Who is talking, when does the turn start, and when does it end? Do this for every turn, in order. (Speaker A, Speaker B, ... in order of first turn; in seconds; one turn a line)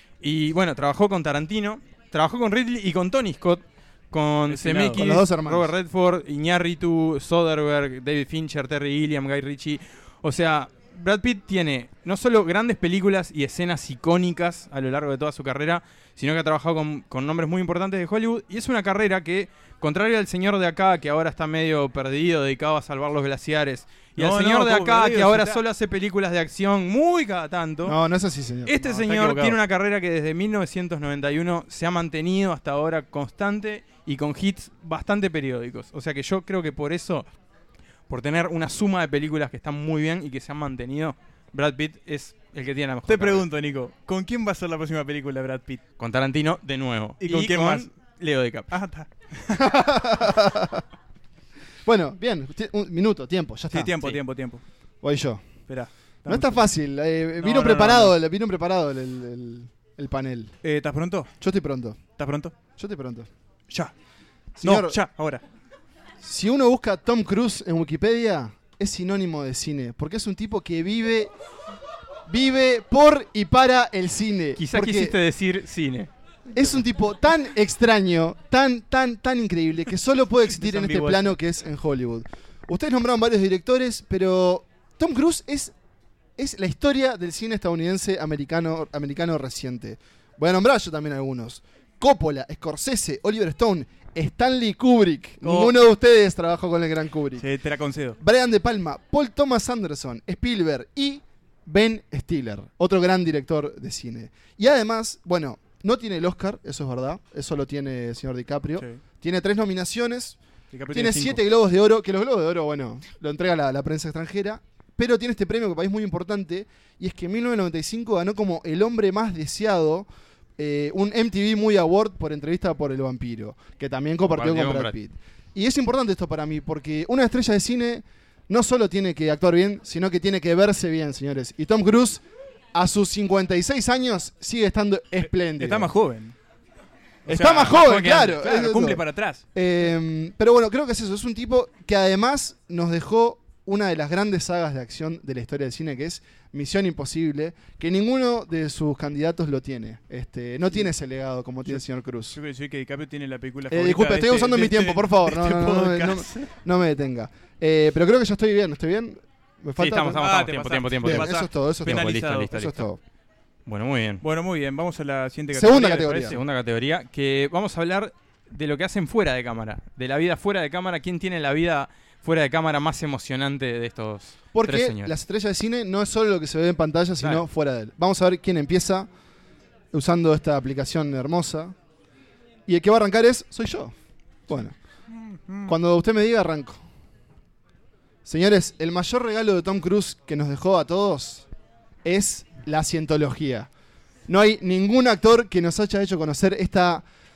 Speaker A: 0.2-28.0
Speaker B: 4.5-5.2
Speaker C: 4.9-5.7
Speaker B: 24.1-25.6
Speaker C: 27.8-28.7
Speaker A: 28.6-37.3
Speaker B: 28.8-29.6
Speaker A: 38.1-43.5
Speaker B: 43.1-45.8
Speaker A: 46.0-48.7
Speaker B: 47.2-47.9
Speaker B: 48.7-49.7
Speaker C: 49.5-50.8
Speaker C: 51.8-54.0
Speaker B: 53.7-54.6
Speaker C: 55.0-55.4
Speaker B: 55.7-56.6
Speaker C: 56.2-60.5
Speaker B: 57.4-58.1
Speaker B: 60.6-61.3
Speaker C: 61.4-62.0
Speaker B: 62.2-62.5
Speaker C: 62.8-63.3
Speaker B: 63.7-63.9
Speaker C: 64.5-65.0
Speaker B: 64.6-65.4
Speaker C: 66.2-71.3
Speaker C: 72.3-75.2
Speaker A: 74.6-76.1
Speaker C: 76.5-85.7
Speaker B: 80.5-81.4
Speaker C: 86.4-97.5
Speaker B: 95.4-95.7
Speaker B: 97.4-98.2
Speaker C: 98.2-110.4
Speaker B: 110.7-111.4
Speaker C: 110.9-132.2
Speaker A: 124.3-124.9
Speaker C: 132.7-135.9
Speaker B: 135.6-136.3
Speaker B: 137.2-139.4
Speaker C: 137.3-139.0
Speaker A: 137.3-137.8
Speaker C: 139.5-152.4
Speaker B: 152.3-156.5
Speaker C: 153.7-160.2
Speaker A: 159.8-162.8
Speaker B: 160.1-162.6
Speaker C: 161.0-163.0
Speaker A: 163.7-164.2
Speaker B: 164.2-166.3
Speaker C: 165.5-166.4
Speaker A: 166.2-175.1
Speaker C: 174.5-179.1
Speaker C: 179.9-181.8
Speaker C: 182.7-183.9
Speaker C: 184.5-184.7
Speaker B: 185.1-185.7
Speaker C: 185.7-186.8
Speaker C: 188.2-191.5
Speaker C: 192.0-193.7
Speaker C: 194.3-197.1